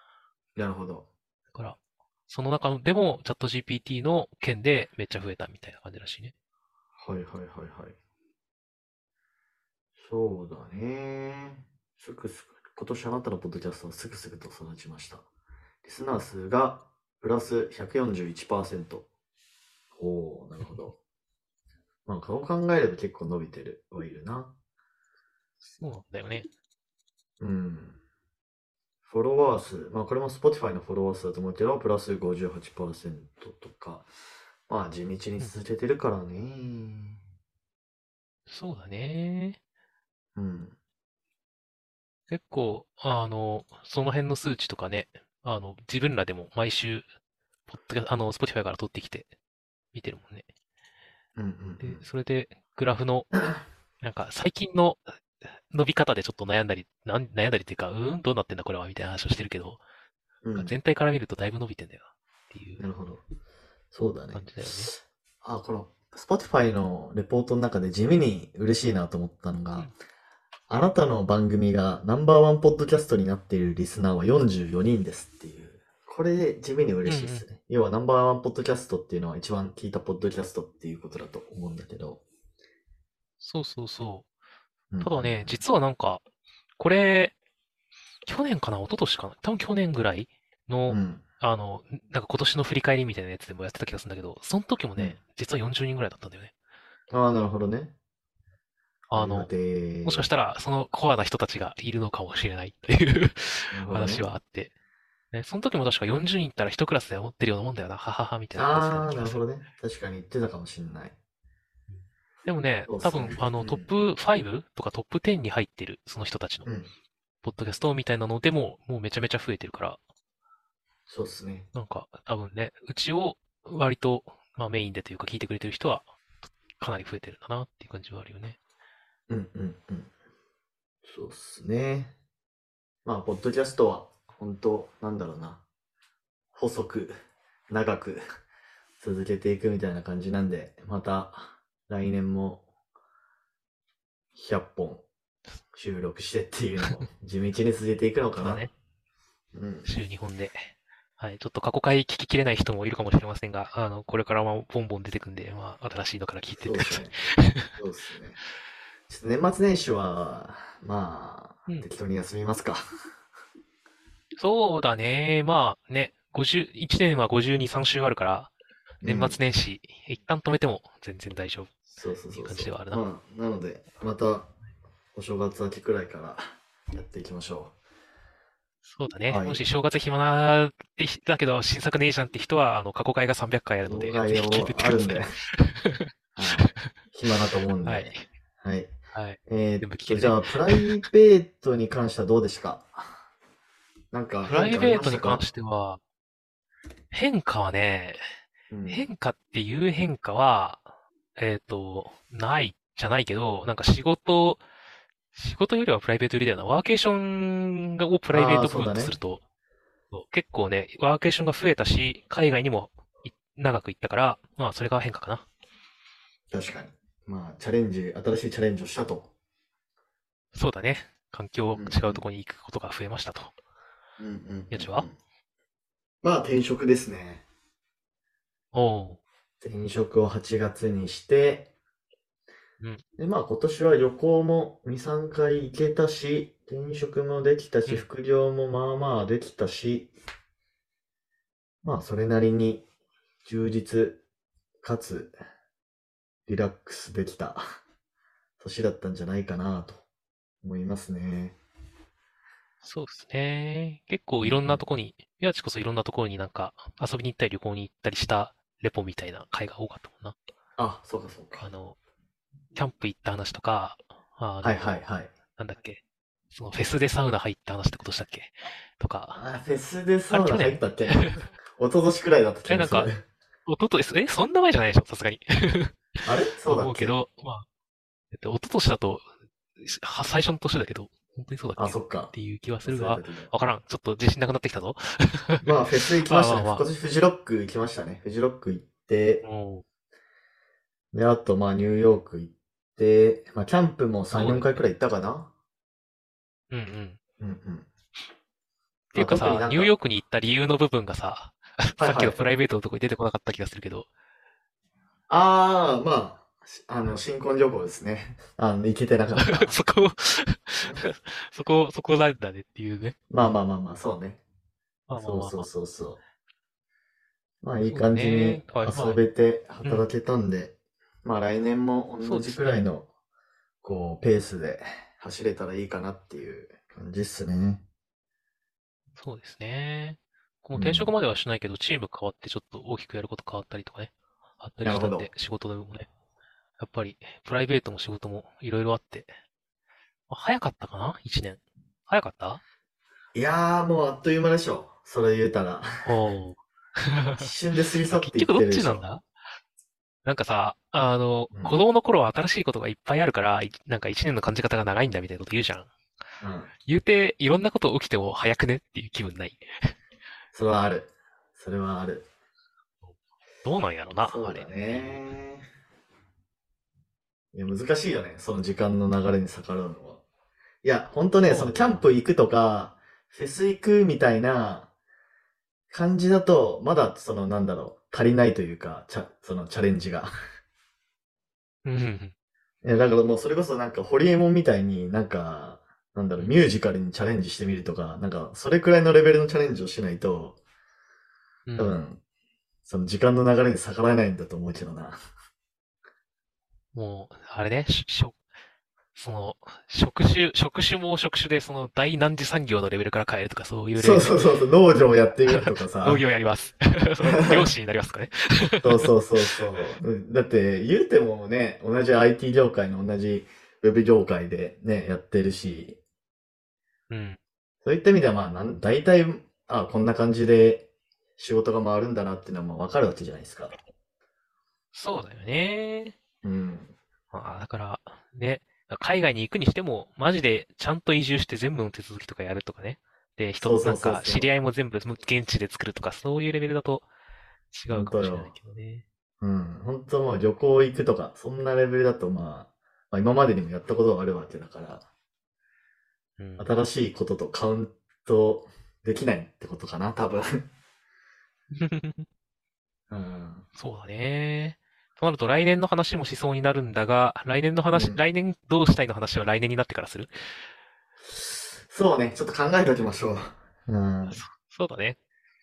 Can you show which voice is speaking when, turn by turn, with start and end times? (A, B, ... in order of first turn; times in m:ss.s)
0:00.6-0:01.1 A
0:02.3-0:06.3 B
0:07.0-0:08.0 A
0:10.0-0:15.3 A
0:15.8-0:19.1 A
0:20.0-0:20.9 A
0:20.6-0:20.9 B
0:22.1-0:24.6 A
0:25.7-0:26.5 B
0:27.4-0:28.0 A
0:29.0-0:34.1 A
0:34.7-0:37.2 A
0:38.5-0:39.6 B
0:40.4-0:40.8 A
0:42.3-0:47.1 B
0:47.7-0:49.3 B
0:49.9-0:50.5 B
0:51.4-0:52.0 A
0:51.8-0:53.3 B
0:54.0-0:59.8 B
1:00.4-1:00.8 A
1:00.6-1:02.8 B
1:02.8-1:03.2 A
1:03.9-1:09.9 A
1:04.3-1:04.9 B
1:10.7-1:22.2 A
1:17.1-1:17.5 B
1:23.4-1:24.3 B
1:24.9-1:25.6 A
1:25.0-1:26.2 B
1:26.8-1:27.4 B
1:28.3-1:36.5 B
1:30.9-1:31.2 A
1:37.1-1:37.9 A
1:39.1-1:39.5 B
1:39.2-1:40.3 A
1:40.0-1:44.7 B
1:43.7-1:44.3 A
1:45.3-1:49.4 B
1:48.5-1:51.2 A
1:52.4-1:56.7 B
1:52.9-1:53.9 A
1:56.6-1:56.9 A
1:57.4-2:00.0 B
2:01.1-2:01.7 A
2:01.7-2:08.6 B
2:09.3-2:10.1 A
2:11.0-2:12.2 A
2:13.0-2:15.6 A
2:16.5-2:18.2 A
2:19.0-2:22.6 A
2:24.3-2:25.1 A
2:25.7-2:28.7 A
2:28.3-2:28.7 B
2:29.5-2:29.9 A
2:29.8-2:30.7 B
2:31.2-2:37.6 B
2:36.6-2:37.2 A
2:37.8-2:38.4 A
2:39.1-2:42.8 A
2:44.4-2:51.7 B
2:49.0-2:49.4 A
2:52.0-2:54.5 A
2:52.3-2:53.0 B
2:55.2-2:57.8 A
2:58.9-3:06.1 B
2:59.3-2:59.6 A
3:03.8-3:05.3 A
3:06.4-3:08.9 A
3:06.6-3:06.9 B
3:07.8-3:08.2 B
3:09.1-3:11.0 B
3:09.5-3:13.1 A
3:14.1-3:15.5 A
3:14.4-3:16.0 B
3:17.1-3:18.2 B
3:18.7-3:19.1 A
3:18.9-3:24.6 B
3:25.4-3:29.4 B
3:28.3-3:29.2 A
3:30.1-3:35.5 B
3:36.5-3:39.3 A
3:40.5-3:43.5 B
3:41.7-3:42.2 A
3:44.2-3:45.2 A
3:44.7-3:45.1 B
3:46.2-3:47.4 A
3:48.7-3:49.2 B
3:49.6-3:51.7 A
3:53.2-4:00.1 A
4:01.8-4:02.9 A
4:03.4-4:04.2 A
4:04.8-4:05.4 A
4:06.5-4:07.6 A
4:08.6-4:10.0 A
4:10.6-4:11.6 A
4:12.8-4:20.4 B
4:14.4-4:14.8 A
4:20.8-4:21.7 A
4:21.6-4:22.0 B
4:22.7-4:25.0 B
4:24.6-4:25.3 A
4:25.6-4:26.0 B
4:26.5-4:29.4 B
4:29.4-4:33.2 A
4:30.3-4:31.5 B
4:32.7-4:33.1 B
4:33.7-4:36.1 B
4:36.2-4:37.2 A
4:36.6-4:37.6 B
4:38.3-4:45.6 B
4:41.8-4:43.5 A
4:45.6-4:49.4 A
4:46.2-4:46.9 B
4:49.4-4:49.8 B
4:51.1-4:55.5 A
4:54.3-4:54.7 B
4:56.7-4:57.2 B
4:57.4-4:57.9 A
4:59.1-5:04.1 B
4:59.1-5:00.0 A
5:02.0-5:02.4 A
5:05.3-5:09.8 A
5:09.4-5:13.2 B
5:13.3-5:14.4 A
5:15.1-5:15.7 B
5:15.2-5:16.2 A
5:17.6-5:23.1 A
5:17.8-5:19.2 B
5:22.2-5:22.9 B
5:23.8-5:27.8 A
5:29.2-5:36.1 B
5:30.8-5:31.1 A
5:34.8-5:35.3 A
5:36.8-5:39.3 B
5:40.3-5:42.6 B
5:43.4-5:46.1 A
5:46.0-5:47.5 B
5:47.4-5:49.1 A
5:48.1-5:49.2 B
5:50.2-5:55.9 B
5:51.5-5:51.8 A
5:56.4-5:56.7 A
5:56.9-5:59.7 B
6:00.5-6:02.3 A
6:03.1-6:05.4 B
6:04.2-6:05.7 A
6:07.5-6:10.2 A
6:10.8-6:14.9 A
6:11.4-6:12.0 B
6:15.9-6:20.3 A
6:21.8-6:22.3 B
6:22.8-6:30.6 A
6:31.7-6:32.0 B
6:31.8-6:32.2 A
6:32.9-6:35.2 A
6:36.9-6:38.4 B
6:39.2-6:44.5 B
6:44.0-6:46.2 A
6:45.5-6:49.6 B
6:47.2-6:47.7 A
6:48.8-6:56.0 A
6:57.1-6:57.4 B
6:57.8-7:03.8 A
7:04.9-7:06.2 B
7:06.4-7:07.0 A
7:07.3-7:17.1 B
7:13.6-7:14.5 A
7:17.7-7:19.0 B
7:17.9-7:18.5 A
7:19.4-7:25.1 A
7:26.4-7:26.7 B
7:26.6-7:30.7 A
7:31.8-7:32.3 B
7:33.1-7:33.7 A
7:33.8-7:40.3 B
7:37.9-7:38.2 A
7:41.3-7:44.4 A
7:44.3-7:45.2 B